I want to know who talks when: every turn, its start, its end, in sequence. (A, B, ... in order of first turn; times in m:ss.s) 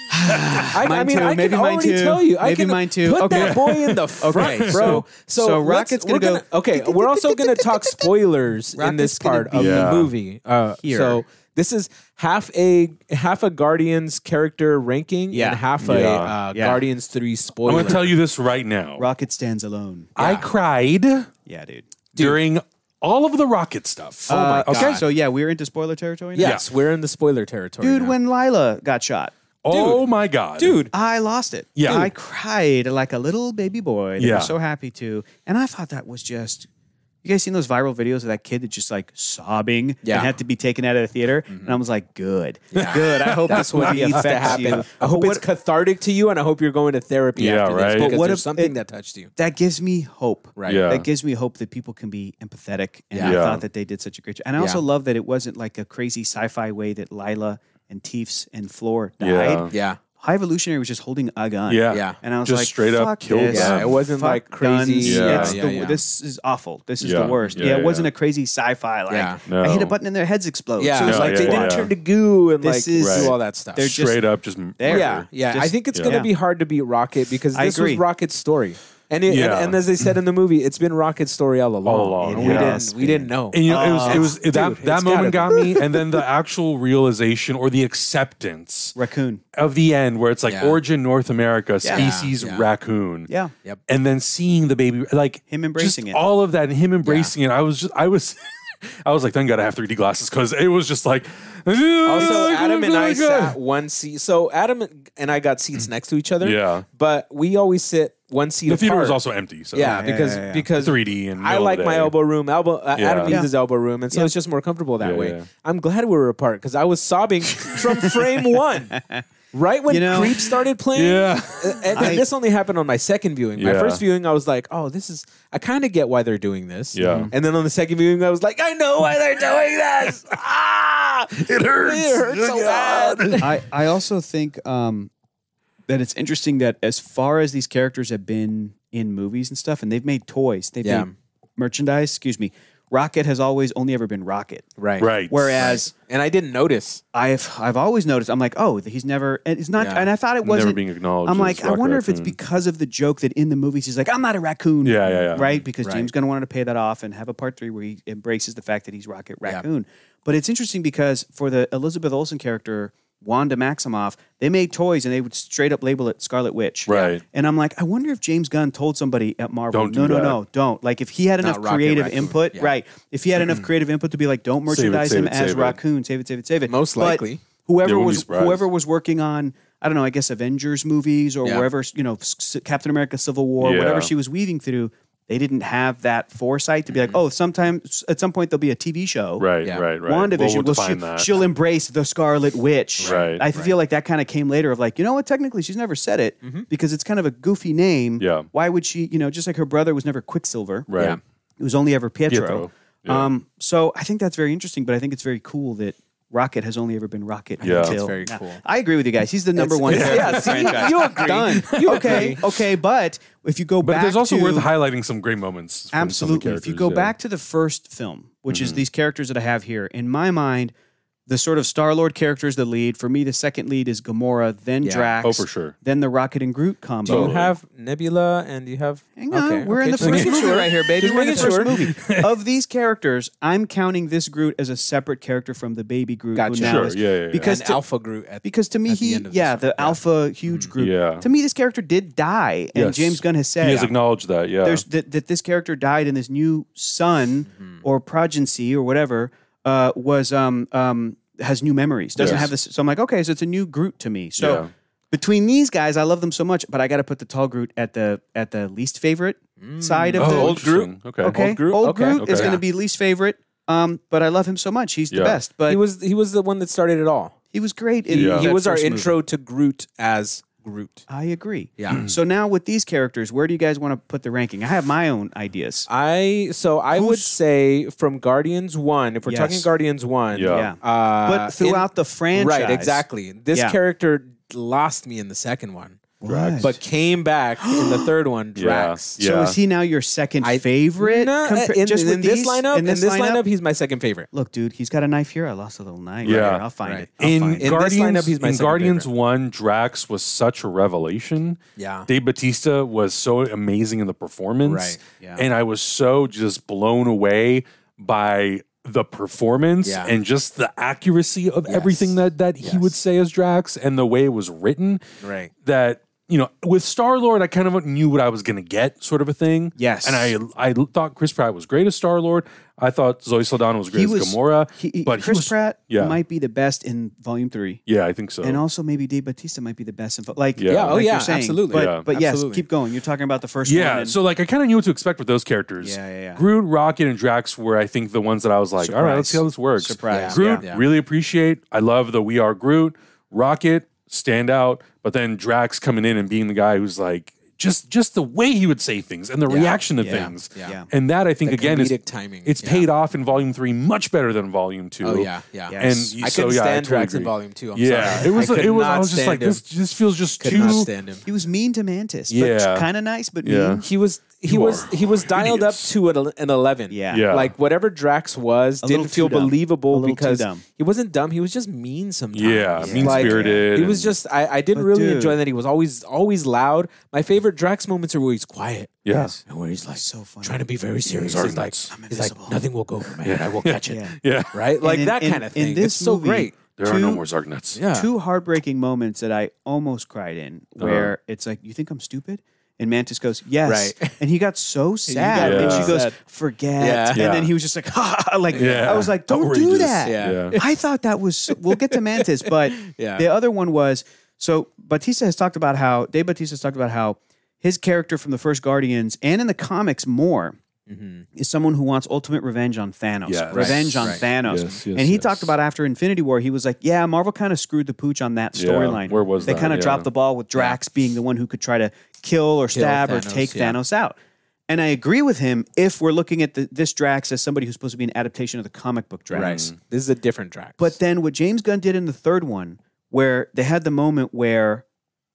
0:00.1-0:08.1 A
0:00.3-0:00.6 B
0:00.7-0:18.1 C
0:03.3-0:05.0 B
0:08.7-0:10.0 A
0:09.5-0:10.1 B
0:10.8-0:11.2 A
0:15.3-0:15.6 A
0:15.8-0:16.4 B
0:16.5-0:16.8 A
0:17.6-0:19.1 B
0:19.0-0:20.1 A
0:20.2-0:21.3 B
0:20.2-0:20.5 C
0:21.4-0:21.9 A
0:22.1-0:22.4 C
0:22.2-0:25.0 B
0:24.3-0:26.6 A
0:24.3-0:25.0 C
0:26.4-0:28.1 C
0:27.8-0:29.3 A
0:29.6-0:30.8 B
0:29.7-0:30.0 C
0:30.6-0:30.9 C
0:30.9-0:36.7 A
0:31.8-0:32.1 B
0:34.2-0:34.5 B
0:37.2-0:45.4 A
0:40.0-0:40.3 C
0:41.5-0:41.8 C
0:42.7-0:44.8 B
0:42.7-0:49.3 C
0:47.4-0:48.1 B
0:48.0-0:48.7 A
0:49.4-1:11.9 A
0:50.6-0:50.8 C
0:50.6-0:51.0 B
0:53.1-0:53.4 C
0:53.2-0:53.6 B
0:59.2-0:59.7 B
0:59.7-1:00.0 C
1:01.7-1:03.9 B
1:01.9-1:02.2 C
1:03.5-1:06.0 C
1:05.0-1:05.6 B
1:07.0-1:08.1 B
1:07.4-1:07.7 C
1:09.1-1:09.4 C
1:09.4-1:09.9 B
1:10.8-1:13.9 C
1:11.0-1:11.9 B
1:12.6-1:14.2 A
1:13.0-1:15.3 B
1:14.8-1:16.3 A
1:14.9-1:26.2 C
1:15.9-1:16.2 B
1:17.5-1:18.0 A
1:19.3-1:19.8 B
1:21.8-1:22.8 B
1:22.2-1:24.3 A
1:23.5-1:29.0 B
1:29.0-1:29.4 A
1:29.5-1:33.3 B
1:30.5-1:30.8 C
1:31.8-1:32.1 A
1:31.9-1:32.7 C
1:33.3-1:33.5 A
1:33.9-1:43.6 B
1:35.5-1:36.2 A
1:37.0-1:37.3 C
1:42.0-1:49.2 C
1:42.2-1:42.5 A
1:46.4-1:46.8 B
1:48.7-1:50.1 B
1:49.7-1:59.0 C
1:49.8-1:50.7 A
1:50.7-1:52.1 B
1:53.0-1:53.4 B
1:55.0-1:55.4 B
1:57.6-1:57.8 B
1:58.9-1:59.2 A
1:59.5-2:13.5 C
1:59.9-2:00.5 A
2:00.9-2:02.2 B
2:01.9-2:02.2 A
2:03.6-2:04.0 B
2:06.9-2:07.3 B
2:07.0-2:07.3 A
2:11.4-2:13.5 B
2:13.4-2:15.1 A
2:15.9-2:24.7 A
2:20.8-2:21.1 C
2:24.8-2:27.0 C
2:25.0-2:25.7 B
2:25.3-2:25.9 A
2:27.1-3:20.9 A
2:29.8-2:30.1 C
2:30.4-2:32.3 B
2:34.8-2:35.6 B
2:35.8-2:36.1 C
2:46.9-2:47.2 B
2:46.9-2:47.2 C
2:49.7-2:50.4 B
2:51.4-2:52.7 C
2:54.7-2:55.8 B
2:56.7-2:57.4 C
2:57.8-2:58.6 B
3:03.6-3:04.1 B
3:06.9-3:07.2 C
3:09.4-3:11.4 B
3:09.6-3:09.9 C
3:13.0-3:13.7 C
3:13.0-3:13.4 B
3:18.2-3:18.5 B
3:20.9-3:21.2 B
3:21.6-3:34.7 A
3:22.3-3:23.3 B
3:27.6-3:28.6 C
3:27.6-3:28.0 B
3:29.6-3:32.5 C
3:29.8-3:32.5 B
3:33.8-3:37.1 B
3:35.9-3:40.7 A
3:38.5-3:38.8 B
3:41.3-3:47.3 A
3:44.8-3:45.1 C
3:45.2-3:45.7 B
3:47.0-3:47.5 B
3:47.0-3:51.9 C
3:49.2-3:57.8 A
3:50.0-3:52.3 B
3:56.3-3:56.9 C
3:56.6-3:57.5 B
3:57.4-4:00.7 C
3:58.4-4:03.9 A
4:00.8-4:01.2 B
4:02.8-4:04.8 B
4:04.6-4:20.6 A
4:07.5-4:07.8 C
4:12.2-4:12.5 C
4:12.2-4:12.5 B
4:14.4-4:14.7 B
4:19.6-4:22.6 C
4:20.2-4:21.4 B
4:21.2-4:25.8 A
4:22.2-4:22.6 B
4:25.1-4:25.4 B
4:25.7-4:27.4 C
4:27.5-4:29.2 A
4:28.1-4:31.0 C
4:28.1-4:28.5 B
4:31.1-4:35.9 A
4:31.8-4:32.0 C
4:35.9-4:46.0 C
4:36.9-4:37.4 A
4:39.2-4:39.7 A
4:40.3-4:40.7 B
4:40.5-4:43.8 A
4:46.2-4:46.8 A
4:46.2-4:46.7 B
4:46.6-4:49.2 C
4:47.6-4:48.1 A
4:48.6-4:49.6 B
4:49.2-4:53.4 A
4:50.4-4:54.3 C
4:54.3-4:57.7 A
4:56.2-4:56.6 B
4:56.3-4:59.1 C
4:57.2-5:15.0 B
5:01.8-5:02.1 C
5:04.6-5:05.0 C
5:09.8-5:10.1 C
5:11.7-5:12.9 C
5:15.2-5:15.5 C
5:15.6-5:26.2 B
5:19.8-5:20.3 A
5:23.9-5:27.8 A
5:27.9-5:28.6 B
5:28.4-5:34.2 A
5:30.6-5:31.0 B
5:30.7-5:32.6 C
5:31.7-5:32.0 B
5:33.6-6:00.9 B
5:35.8-5:36.4 A
5:38.8-5:40.6 A
5:40.1-5:40.8 C
5:49.5-5:50.8 C
5:50.0-5:50.9 A
5:51.4-5:52.9 C
5:55.0-5:59.6 C
5:55.7-5:56.1 A
6:00.4-6:01.2 C
6:00.5-6:03.8 A
6:02.3-6:02.9 B
6:03.4-6:03.8 B
6:03.8-6:26.6 C
6:04.4-6:05.9 B
6:06.9-6:07.3 A
6:07.1-6:07.5 B
6:08.8-6:10.6 A
6:12.3-6:14.2 B
6:12.8-6:13.7 A
6:14.7-6:15.4 A
6:19.0-6:19.4 B
6:19.1-6:19.4 A
6:20.0-6:20.6 A
6:21.1-6:21.9 B
6:21.9-6:22.6 A
6:23.2-6:24.6 B
6:23.8-6:24.2 A
6:24.8-6:27.2 A
6:26.8-6:27.8 B
6:27.7-6:28.1 C
6:27.9-6:50.6 A
6:30.8-6:31.1 B
6:33.6-6:34.2 C
6:35.1-6:36.2 C
6:35.3-6:36.0 B
6:36.8-6:37.2 C
6:37.1-6:37.5 B
6:38.5-6:39.1 C
6:38.5-6:40.6 B
6:40.0-6:40.8 C
6:41.5-6:43.2 C
6:50.9-6:51.2 C
6:51.3-7:04.2 A
6:53.2-6:55.5 B
6:53.5-6:54.2 C
6:58.5-7:00.1 B
7:02.7-7:03.8 C
7:04.7-7:09.6 A
7:09.3-7:11.0 C
7:09.3-7:09.7 B
7:10.8-7:14.8 A